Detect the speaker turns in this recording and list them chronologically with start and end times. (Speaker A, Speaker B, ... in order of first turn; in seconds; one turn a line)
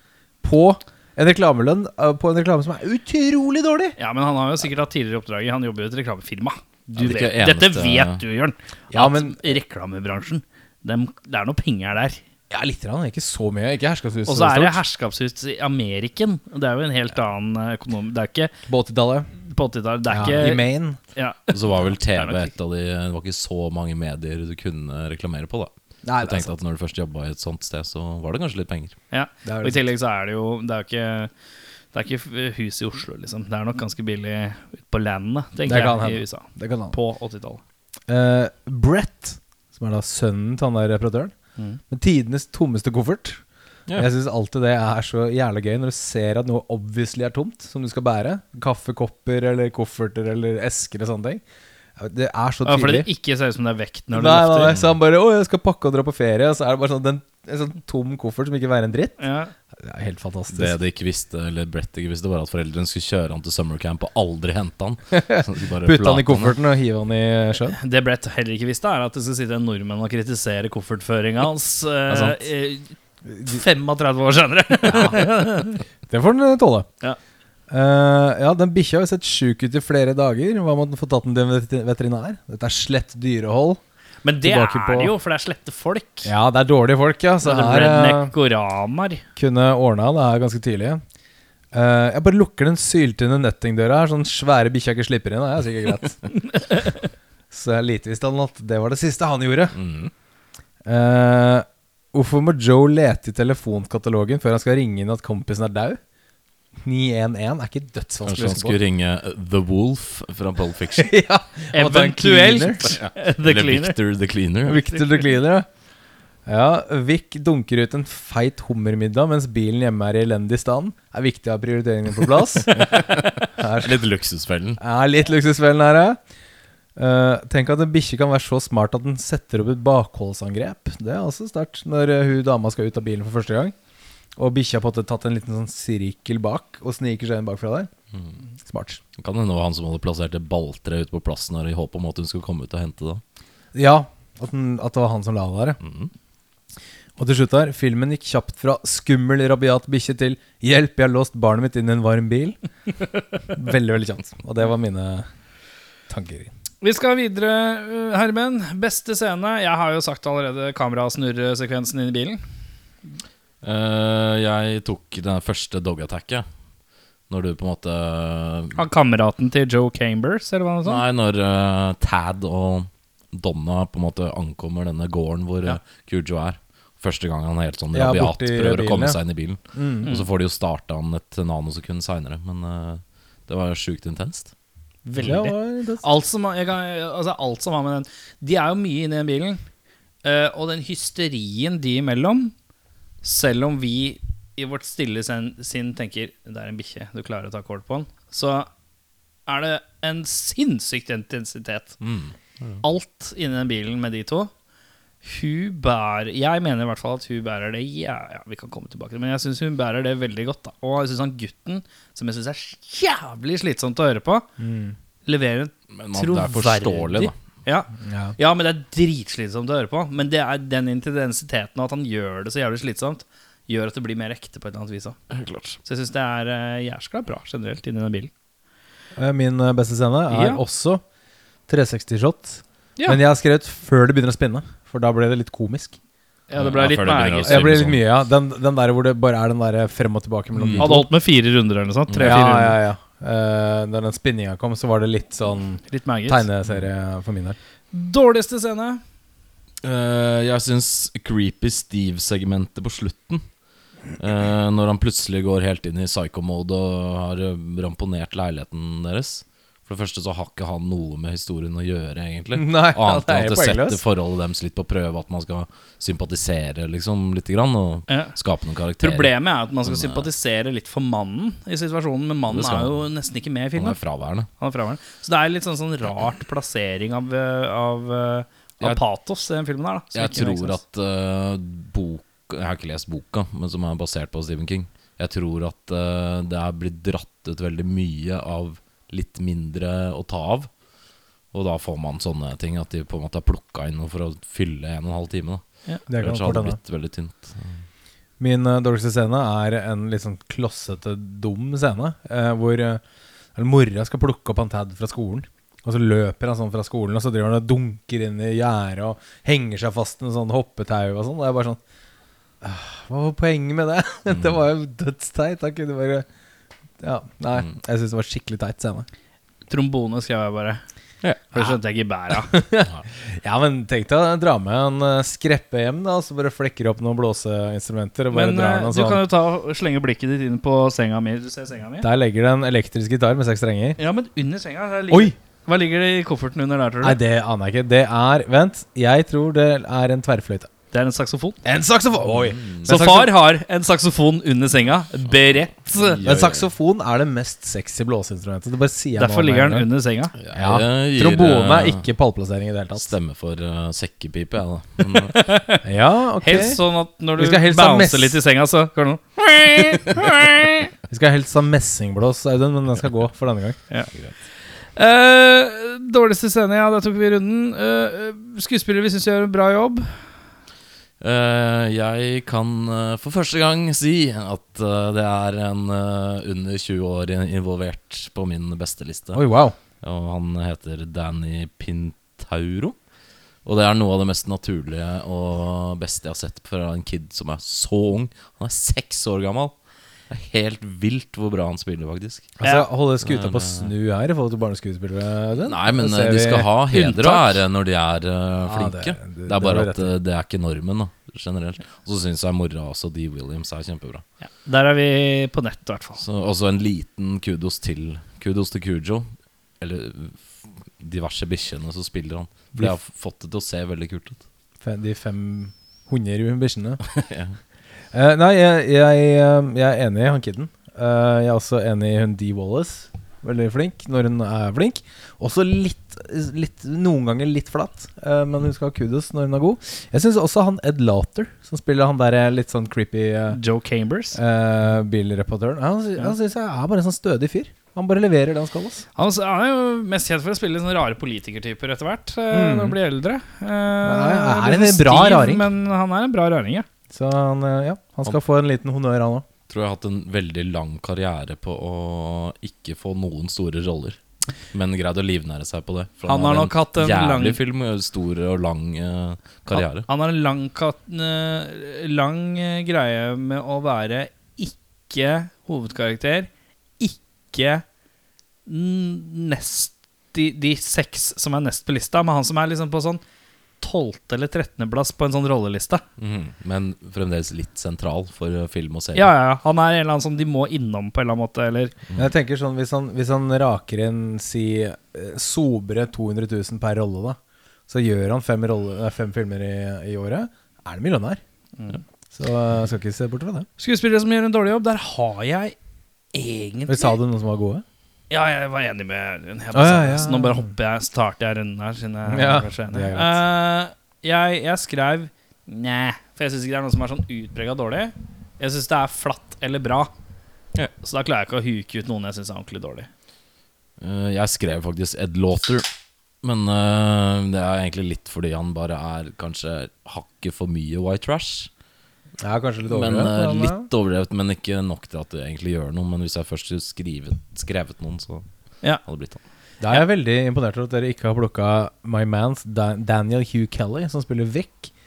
Speaker A: 0.4-4.0
Speaker B: 4.0-12.2
Speaker C: 7.0-8.2
Speaker A: 8.9-9.6
Speaker A: 12.5-14.8
Speaker B: 14.3-18.5
Speaker A: 18.7-19.3
Speaker B: 19.5-22.5
Speaker A: 20.1-21.0
Speaker C: 21.5-29.0
Speaker A: 26.0-26.5
Speaker B: 29.1-31.3
Speaker A: 29.4-29.9
Speaker B: 31.9-37.6
Speaker A: 35.7-37.0
Speaker A: 38.1-41.3
Speaker A: 41.9-43.4
Speaker A: 44.0-51.4
Speaker A: 52.0-53.1
Speaker B: 52.7-54.8
Speaker A: 54.1-59.2
Speaker B: 59.2-59.5
Speaker A: 59.8-60.8
Speaker C: 60.5-66.6
Speaker A: 65.1-67.8
Speaker B: 67.8-75.8
Speaker C: 72.1-72.4
Speaker A: 74.9-75.2
Speaker A: 76.1-76.9
Speaker A: 77.7-83.8
Speaker B: 84.2-86.3
Speaker A: 84.4-85.1
Speaker A: 86.2-88.3
Speaker B: 87.4-89.2
Speaker A: 89.4-91.0
Speaker A: 91.7-96.3
Speaker B: 96.5-97.0
Speaker A: 97.5-99.8
Speaker C: 99.7-100.1
Speaker A: 100.8-106.0
Speaker A: 106.8-108.8
Speaker C: 108.2-111.1
Speaker A: 111.0-112.8
Speaker B: 111.7-114.0
Speaker C: 112.8-115.0
Speaker A: 114.7-115.7
Speaker A: 116.5-123.0
Speaker C: 122.7-124.8
Speaker A: 123.6-124.0
Speaker A: 124.8-126.2
Speaker A: 127.0-133.8
Speaker A: 134.4-137.9
Speaker A: 138.6-139.0
Speaker C: 139.2-143.2
Speaker A: 143.7-145.8
Speaker C: 145.8-146.1
Speaker A: 147.2-152.6
Speaker A: 153.5-155.3
Speaker A: 156.1-156.5
Speaker B: 156.8-162.4
Speaker C: 163.6-166.5
Speaker C: 167.3-168.8
Speaker B: 168.8-171.0
Speaker C: 170.8-184.5
Speaker A: 177.9-179.2
Speaker A: 179.8-180.1
Speaker B: 185.1-189.6
Speaker A: 185.2-186.0
Speaker B: 190.2-192.5
Speaker B: 193.2-198.7
Speaker B: 199.5-202.0
Speaker C: 202.0-202.8
Speaker B: 202.8-204.5
Speaker B: 205.2-214.5
Speaker A: 214.6-214.9
Speaker B: 215.3-225.2
Speaker C: 215.9-217.3
Speaker A: 218.0-218.4
Speaker C: 225.3-225.8
Speaker B: 225.8-228.3
Speaker A: 229.2-231.0
Speaker B: 230.3-230.6
Speaker A: 231.7-236.0
Speaker B: 236.5-237.8
Speaker C: 236.6-238.1
Speaker A: 237.5-241.1
Speaker C: 240.6-240.9
Speaker B: 240.8-242.8
Speaker C: 242.1-242.4
Speaker A: 242.2-247.6
Speaker B: 245.9-246.4
Speaker B: 247.9-249.0
Speaker C: 249.8-253.4
Speaker C: 254.2-270.3
Speaker A: 262.5-264.0
Speaker B: 269.0-274.0
Speaker C: 272.5-273.0
Speaker C: 273.8-274.5
Speaker B: 274.6-280.8
Speaker C: 280.1-290.7
Speaker C: 291.5-297.8
Speaker A: 296.1-296.8
Speaker A: 298.4-303.0
Speaker A: 303.6-311.8
Speaker A: 312.6-316.3
Speaker A: 317.0-319.1
Speaker B: 319.7-320.8
Speaker B: 321.5-322.5
Speaker A: 322.5-329.3
Speaker B: 328.3-332.1
Speaker A: 332.0-334.0
Speaker B: 334.0-337.2
Speaker A: 337.0-340.7
Speaker B: 340.9-341.6
Speaker A: 341.6-343.3
Speaker C: 342.4-342.9
Speaker B: 342.9-346.2
Speaker C: 346.0-346.7
Speaker A: 346.2-349.9
Speaker B: 349.2-350.4
Speaker C: 350.4-352.0
Speaker A: 350.6-353.1
Speaker C: 352.9-355.4
Speaker B: 355.1-355.8
Speaker A: 355.8-356.8
Speaker B: 356.4-360.9
Speaker A: 357.4-358.4
Speaker A: 361.1-363.8
Speaker B: 365.0-370.2
Speaker C: 371.2-379.4
Speaker A: 379.3-379.8
Speaker C: 380.0-383.0
Speaker C: 383.6-389.7
Speaker C: 390.3-392.5
Speaker A: 392.6-397.6
Speaker C: 393.2-393.9
Speaker C: 395.6-404.2
Speaker A: 398.7-400.1
Speaker B: 404.4-406.2
Speaker C: 406.2-409.3
Speaker C: 409.8-410.4
Speaker C: 411.0-414.4
Speaker A: 414.8-417.0
Speaker C: 417.1-417.6
Speaker A: 418.1-433.6
Speaker B: 433.5-434.4
Speaker A: 434.3-439.1
Speaker B: 439.2-446.9
Speaker A: 442.5-443.0
Speaker A: 444.0-445.7
Speaker A: 447.1-449.4
Speaker C: 449.7-454.2
Speaker C: 454.7-460.1
Speaker B: 456.3-457.6
Speaker B: 459.7-467.9
Speaker B: 468.7-473.2
Speaker B: 473.8-476.0
Speaker C: 476.2-479.3
Speaker B: 479.1-481.9
Speaker A: 482.2-487.4
Speaker A: 487.9-491.4
Speaker A: 492.3-493.7
Speaker B: 493.8-495.8
Speaker B: 496.3-497.2
Speaker A: 496.9-497.8
Speaker B: 498.3-510.1
Speaker A: 499.7-500.7
Speaker A: 502.3-503.4
Speaker B: 511.0-513.1
Speaker C: 514.0-515.9
Speaker C: 516.4-521.7
Speaker A: 522.4-523.9
Speaker C: 522.9-528.5
Speaker C: 529.0-529.4
Speaker A: 529.8-534.9